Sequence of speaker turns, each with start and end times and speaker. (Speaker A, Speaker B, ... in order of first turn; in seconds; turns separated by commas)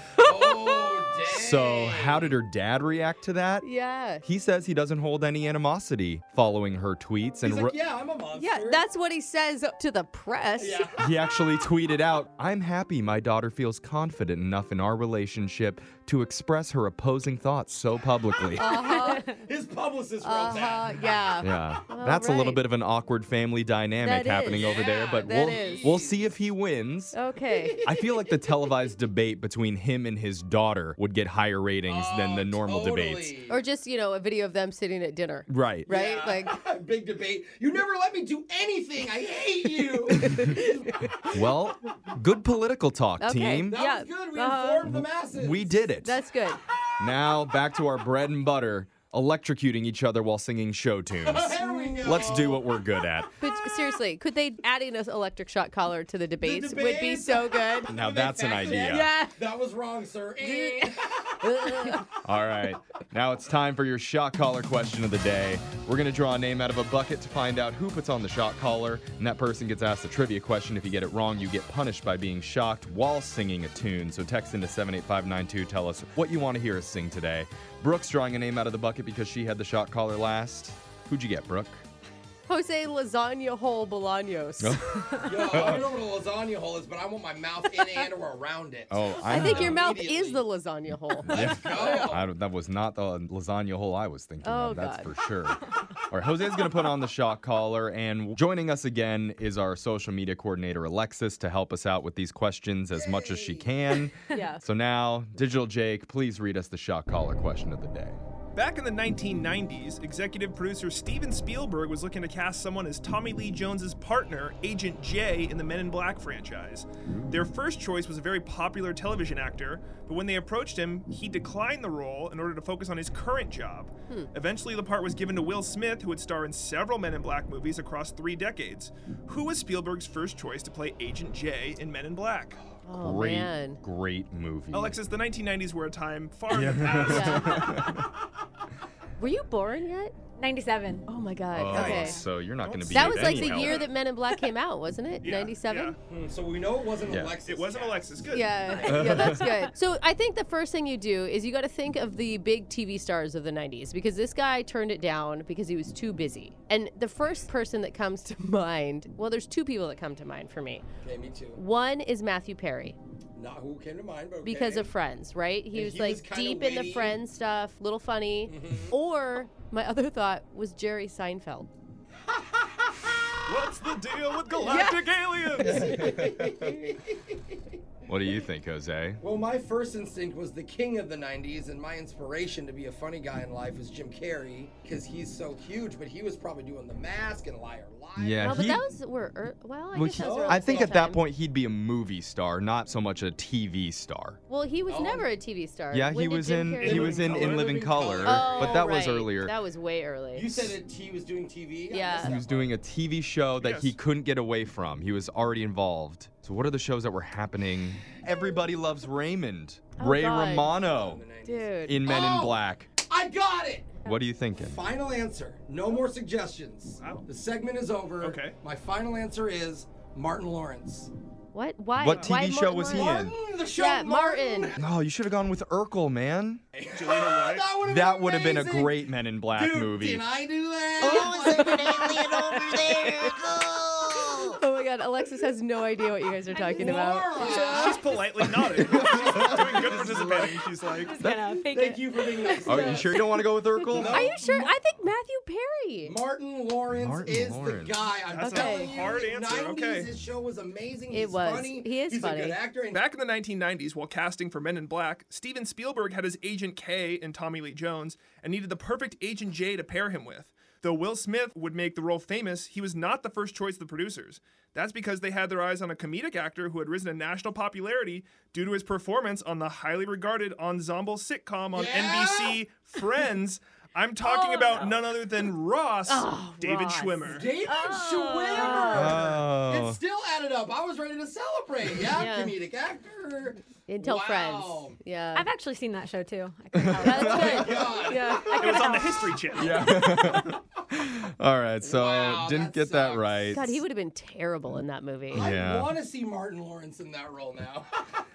Speaker A: 0.2-2.4, Speaker B: 0.2-0.9, Speaker C: 1.3-3.7, Speaker B: 3.6-4.3, Speaker C: 4.2-7.7, Speaker A: 7.4-8.8, Speaker B: 8.4-10.9, Speaker A: 10.6-11.0, Speaker C: 11.0-18.7, Speaker A: 18.5-21.4, Speaker B: 18.6-19.3, Speaker B: 20.2-22.6, Speaker C: 21.4-27.2, Speaker B: 24.0-26.0, Speaker A: 24.5-26.3, Speaker B: 27.1-27.8, Speaker A: 27.5-28.5, Speaker C: 27.8-33.3, Speaker A: 31.9-33.6, Speaker B: 33.5-36.6, Speaker C: 35.5-35.9, Speaker A: 35.9-41.0, Speaker B: 40.2-41.2, Speaker C: 41.3-43.8, Speaker B: 43.2-45.0, Speaker A: 43.7-45.9, Speaker C: 44.9-46.2, Speaker B: 46.0-46.6, Speaker C: 47.0-53.4, Speaker A: 51.2-52.7, Speaker B: 51.7-52.4, Speaker B: 53.4-58.0, Speaker A: 56.4-62.0, Speaker C: 57.9-59.1, Speaker B: 58.6-59.4, Speaker B: 60.4-62.1, Speaker C: 62.2-81.8, Speaker B: 82.5-85.1, Speaker C: 84.6-85.9, Speaker A: 85.2-90.5, Speaker C: 88.9-89.9, Speaker B: 89.3-92.1, Speaker C: 91.3-108.2, Speaker A: 91.3-92.3, Speaker B: 94.4-95.1, Speaker A: 102.9-104.1, Speaker D: 104.3-104.6, Speaker E: 108.5-132.6, Speaker B: 132.8-133.8, Speaker C: 133.0-135.0, Speaker E: 134.7-137.9, Speaker C: 136.5-138.1, Speaker B: 137.0-137.9, Speaker B: 139.2-140.2, Speaker D: 140.4-141.1, Speaker B: 141.1-142.2, Speaker C: 141.5-143.9, Speaker D: 141.7-142.2, Speaker E: 142.6-143.9, Speaker B: 142.9-146.0, Speaker E: 145.2-146.0, Speaker A: 146.1-148.2, Speaker C: 147.1-147.3, Speaker E: 147.5-149.3, Speaker B: 148.3-160.9, Speaker C: 148.8-149.5, Speaker D: 149.4-149.7, Speaker A: 161.0-161.6, Speaker B: 161.6-163.0, Speaker A: 163.4-164.9, Speaker B: 164.4-171.7, Speaker A: 165.7-167.2, Speaker A: 168.5-168.9, Speaker E: 173.5-176.0, Speaker B: 174.6-175.0, Speaker A: 175.6-177.5, Speaker C: 178.1-179.2, Speaker A: 179.2-188.8, Speaker C: 188.2-188.9, Speaker B: 188.4-191.2, Speaker C: 189.9-194.4, Speaker A: 190.2-191.0, Speaker B: 194.5-197.6, Speaker A: 194.9-195.3, Speaker C: 195.9-199.6, Speaker A: 196.8-199.0, Speaker B: 198.2-200.7, Speaker A: 200.3-202.8, Speaker B: 201.9-202.4, Speaker C: 202.2-211.2, Speaker E: 203.6-204.0, Speaker B: 210.0-210.8, Speaker A: 210.8-214.0, Speaker B: 211.4-212.0, Speaker C: 211.9-212.9, Speaker C: 214.0-214.8, Speaker A: 214.6-221.1, Speaker E: 217.0-217.2, Speaker E: 218.2-218.6, Speaker B: 221.5-223.2, Speaker C: 222.0-223.3, Speaker A: 222.9-224.8, Speaker B: 223.7-224.8, Speaker C: 224.8-226.6, Speaker A: 226.7-234.6, Speaker E: 226.9-227.7, Speaker C: 227.8-230.2, Speaker B: 231.0-233.4, Speaker C: 231.1-234.2, Speaker B: 234.3-238.1, Speaker D: 236.5-237.5, Speaker A: 236.6-240.7, Speaker E: 237.5-241.2, Speaker D: 241.0-242.6, Speaker C: 241.2-241.6, Speaker A: 241.6-243.2, Speaker B: 242.5-243.2, Speaker C: 242.7-244.4, Speaker A: 243.9-244.5, Speaker B: 243.9-246.2, Speaker A: 246.1-253.0, Speaker C: 246.9-248.0, Speaker E: 248.3-250.1, Speaker B: 248.4-249.1, Speaker B: 251.1-252.6, Speaker E: 252.9-277.5, Speaker A: 271.7-272.6, Speaker B: 276.1-279.3, Speaker A: 277.2-285.0, Speaker D: 277.7-279.0, Speaker C: 278.9-280.0, Speaker B: 282.1-282.5, Speaker B: 283.9-285.5, Speaker D: 285.3-290.2, Speaker C: 286.8-287.7, Speaker A: 287.0-288.7, Speaker B: 287.0-288.6, Speaker E: 288.6-289.9, Speaker C: 289.6-293.8, Speaker A: 291.8-293.6, Speaker B: 293.5-295.5, Speaker C: 295.3-295.9, Speaker A: 295.3-298.0